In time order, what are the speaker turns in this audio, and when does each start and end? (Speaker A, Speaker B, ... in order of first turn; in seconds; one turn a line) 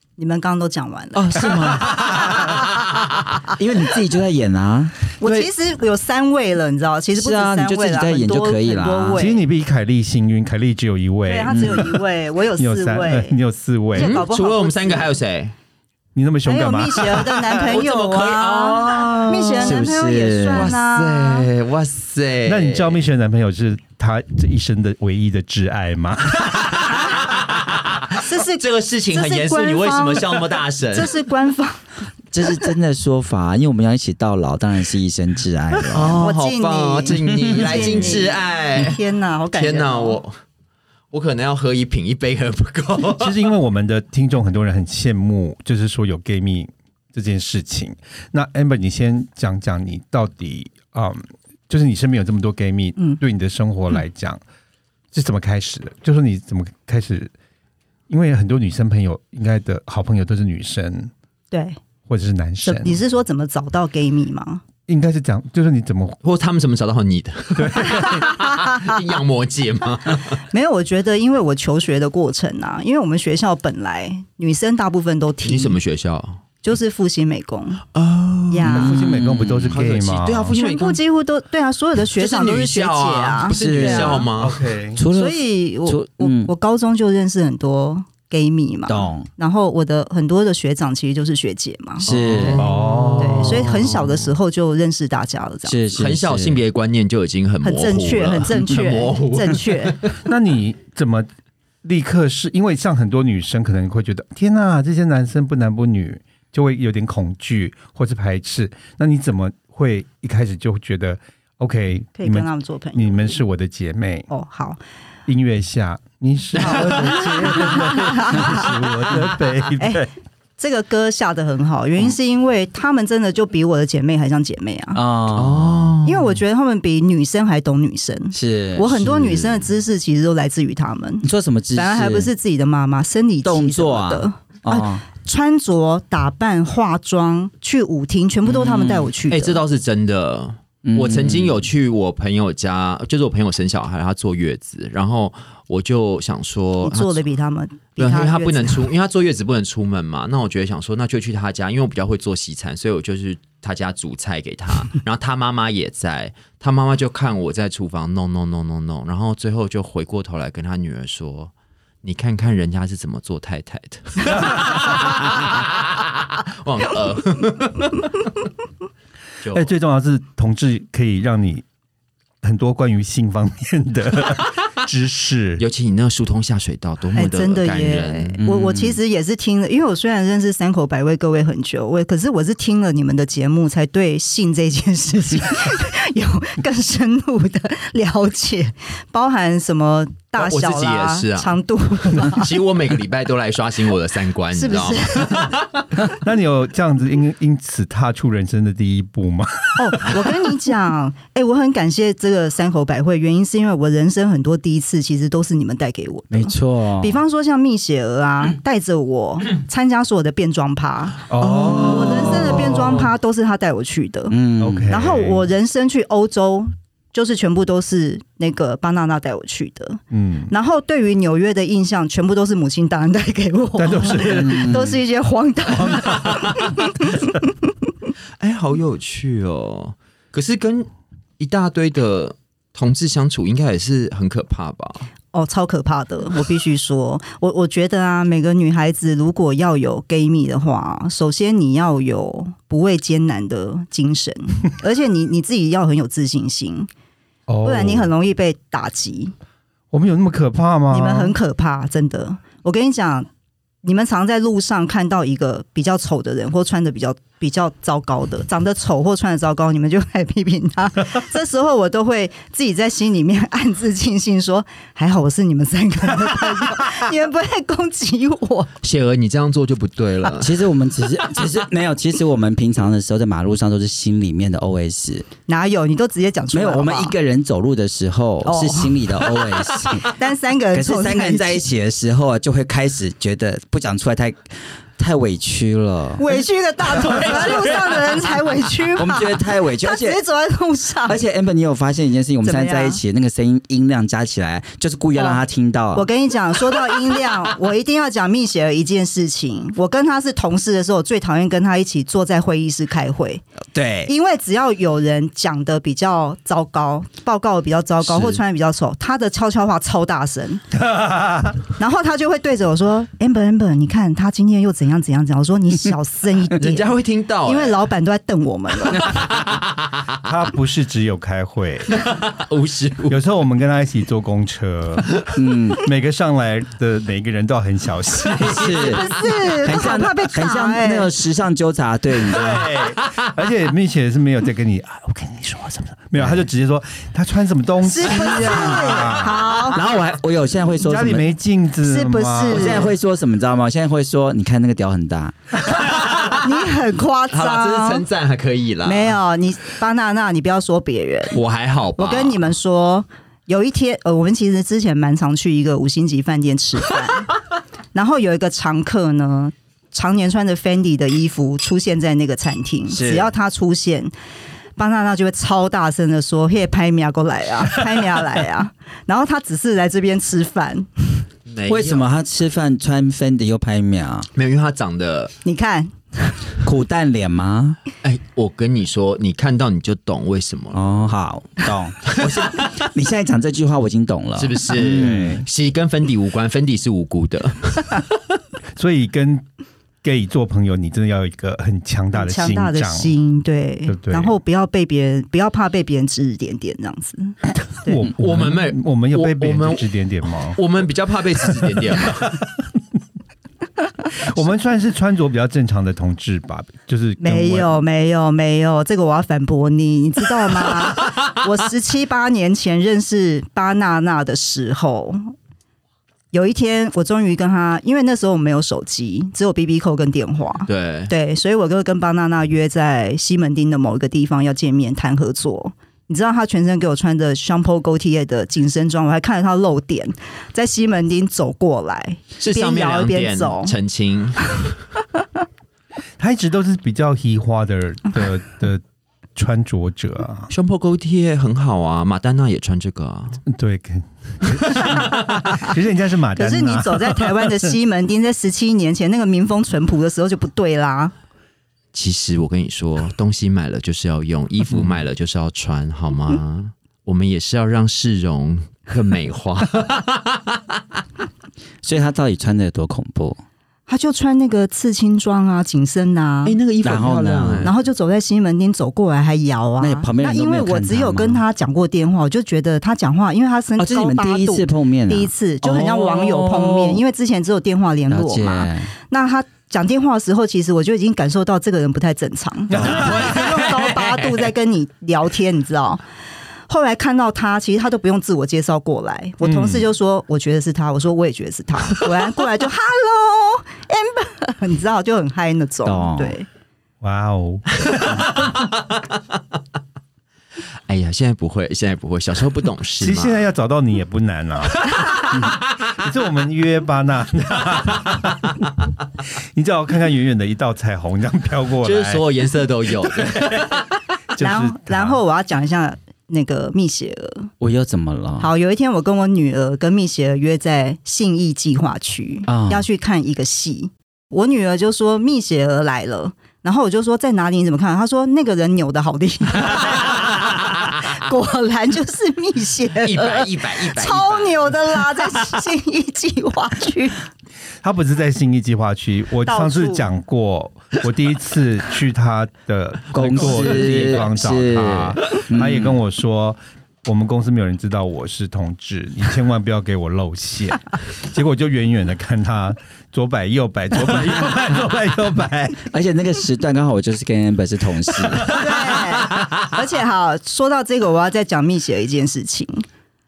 Speaker A: 0.2-2.3
Speaker B: 1.1-2.6
Speaker C: 1.7-2.6
Speaker B: 3.5-4.9
Speaker A: 5.2-9.4
Speaker B: 7.1-9.2
Speaker D: 9.2-12.0
Speaker A: 11.2-13.4
Speaker B: 11.5-12.0
Speaker D: 12.6-14.2
Speaker A: 13.9-15.1
Speaker C: 13.9-15.5
Speaker D: 16.1-17.4
Speaker A: 16.4-21.5
Speaker C: 17.5-19.8
Speaker B: 19.6-20.7
Speaker C: 20.4-23.0
Speaker D: 22.4-27.1
Speaker C: 26.4-31.1
Speaker A: 28.2-31.9
Speaker B: 32.3-36.2
Speaker C: 35.9-39.0
Speaker A: 36.2-40.2
Speaker B: 37.4-38.2
Speaker C: 39.5-40.4
Speaker C: 41.1-43.5
Speaker D: 43.1-54.4
Speaker D: 55.1-57.3
Speaker D: 58.1-61.1
Speaker A: 61.5-61.8
Speaker D: 62.1-63.0
Speaker A: 62.6-64.6
Speaker D: 64.9-66.2
Speaker C: 66.2-70.4
Speaker D: 67.5-68.3
Speaker A: 67.9-69.0
Speaker A: 70.5-75.8
Speaker C: 75.4-76.4
Speaker A: 76.6-77.8
Speaker C: 77.9-78.7
Speaker A: 78.5-78.9
Speaker B: 78.7-79.8
Speaker D: 78.7-80.6
Speaker C: 79.7-81.0
Speaker A: 80.5-84.2
Speaker C: 82.1-84.6
Speaker B: 83.5-84.3
Speaker D: 84.4-85.0
Speaker B: 84.9-86.5
Speaker A: 85.1-92.1
Speaker B: 88.9-89.3
Speaker C: 92.0-94.1
Speaker B: 92.0-92.7
Speaker D: 92.6-93.8
Speaker A: 93.2-95.8
Speaker B: 95.7-96.6
Speaker C: 95.9-100.2
Speaker A: 97.6-100.0
Speaker D: 100.2-101.3
Speaker D: 101.8-114.3
Speaker A: 112.2-113.4
Speaker A: 114.3-114.8
Speaker D: 115.3-120.1
Speaker A: 116.5-118.7
Speaker C: 116.7-117.1
Speaker A: 119.8-125.0
Speaker B: 124.9-126.0
Speaker C: 125.3-126.2
Speaker A: 126.0-139.6
Speaker B: 128.3-129.7
Speaker B: 131.2-132.3
Speaker B: 133.4-135.0
Speaker B: 138.4-139.1
Speaker C: 139.3-147.2
Speaker B: 140.8-141.7
Speaker A: 146.8-148.9
Speaker C: 148.0-161.5
Speaker C: 162.0-168.1
Speaker C: 169.4-169.7
Speaker D: 169.5-171.6
Speaker D: 172.4-175.6
Speaker C: 175.6-178.4
Speaker A: 177.1-192.5
Speaker B: 178.4-179.0
Speaker C: 190.4-191.5
Speaker C: 192.1-195.8
Speaker A: 194.5-195.6
Speaker D: 196.0-200.5
Speaker A: 199.8-214.4
Speaker B: 206.3-207.2
Speaker D: 211.3-213.1
Speaker B: 211.4-212.9
Speaker C: 211.6-211.9
Speaker B: 214.3-214.9
Speaker D: 214.6-215.5
Speaker A: 214.9-227.5
Speaker D: 220.1-220.5
Speaker D: 223.8-224.9
Speaker B: 224.3-225.0
Speaker D: 225.7-226.8
Speaker C: 228.4-230.9
Speaker C: 231.4-235.1
Speaker A: 235.3-246.9
Speaker D: 247.5-248.1
Speaker A: 247.6-249.3
Speaker D: 249.9-251.3
Speaker A: 250.9-253.3
Speaker A: 253.8-268.7
Speaker C: 268.8-270.6
Speaker B: 270.4-275.3
Speaker A: 275.5-277.1
Speaker B: 276.5-280.1
Speaker A: 278.4-279.2
Speaker A: 280.0-281.6
Speaker B: 280.7-286.4
Speaker A: 286.2-291.2
Speaker C: 286.9-288.1
Speaker B: 288.9-290.2
Speaker B: 291.0-296.1
Speaker A: 292.4-293.0
Speaker A: 295.1-295.4
Speaker A: 295.9-303.4
Speaker B: 303.7-304.1
Speaker A: 304.1-310.6
Speaker C: 308.0-308.4
Speaker D: 310.7-311.6
Speaker A: 311.8-316.9
Speaker C: 316.6-317.8
Speaker A: 317.4-319.3
Speaker C: 318.9-320.1
Speaker D: 320.2-322.0
Speaker C: 321.9-323.2
Speaker D: 323.1-329.0
Speaker B: 325.3-325.8
Speaker B: 328.4-332.7
Speaker A: 328.6-331.1
Speaker D: 332.2-339.4
Speaker B: 336.1-336.5
Speaker A: 337.8-339.8
Speaker B: 338.3-341.3
Speaker D: 340.8-342.8
Speaker A: 341.8-342.9
Speaker B: 342.4-345.4
Speaker C: 345.7-346.5
Speaker A: 346.3-348.0
Speaker C: 347.3-349.2
Speaker A: 348.8-351.4
Speaker C: 351.3-352.4
Speaker A: 352.0-357.3
Speaker A: 357.9-364.1
Speaker B: 362.9-363.3
Speaker A: 364.8-371.1
Speaker C: 371.4-372.1
Speaker B: 371.6-374.3
Speaker C: 374.3-375.3
Speaker A: 375.4-376.4
Speaker B: 376.6-377.8
Speaker C: 378.0-380.8
Speaker B: 380.7-385.4
Speaker C: 382.1-382.8
Speaker C: 384.4-388.1
Speaker D: 388.8-389.4
Speaker D: 390.0-393.1
Speaker A: 392.1-398.0
Speaker D: 393.9-394.3
Speaker D: 397.7-400.6
Speaker C: 398.1-402.2
Speaker D: 401.6-402.4
Speaker D: 404.1-407.8
Speaker A: 407.2-415.3
Speaker A: 416.3-433.7
Speaker C: 420.7-421.1
Speaker C: 432.4-434.7
Speaker D: 436.2-438.8
Speaker D: 439.3-440.5
Speaker C: 440.5-443.4
Speaker D: 443.5-447.5
Speaker C: 444.5-444.9
Speaker A: 444.9-445.7
Speaker A: 446.4-451.1
Speaker C: 451.9-460.6
Speaker B: 461.8-463.4
Speaker A: 463.9-466.6
Speaker C: 466.4-467.7
Speaker B: 466.8-467.7
Speaker A: 467.6-486.0
Speaker B: 469.8-471.4
Speaker B: 473.8-477.0
Speaker B: 478.1-478.9
Speaker D: 482.7-483.3
Speaker B: 482.8-483.1
Speaker C: 482.8-484.3
Speaker A: 486.7-496.5
Speaker D: 489.4-489.8
Speaker B: 495.8-496.3
Speaker D: 497.0-498.2
Speaker C: 497.9-498.7
Speaker C: 500.9-503.4
Speaker D: 503.0-508.7
Speaker C: 504.9-505.5
Speaker D: 509.5-512.2
Speaker C: 511.8-513.8
Speaker D: 513.3-513.7
Speaker D: 514.3-515.2
Speaker A: 514.4-517.5
Speaker B: 517.6-518.5
Speaker A: 518.4-537.2
Speaker B: 522.5-522.9
Speaker C: 533.0-534.8
Speaker D: 537.8-555.9
Speaker A: 539.4-540.1
Speaker B: 543.1-546.0
Speaker C: 543.3-544.3
Speaker B: 555.9-559.0
Speaker A: 558.5-562.9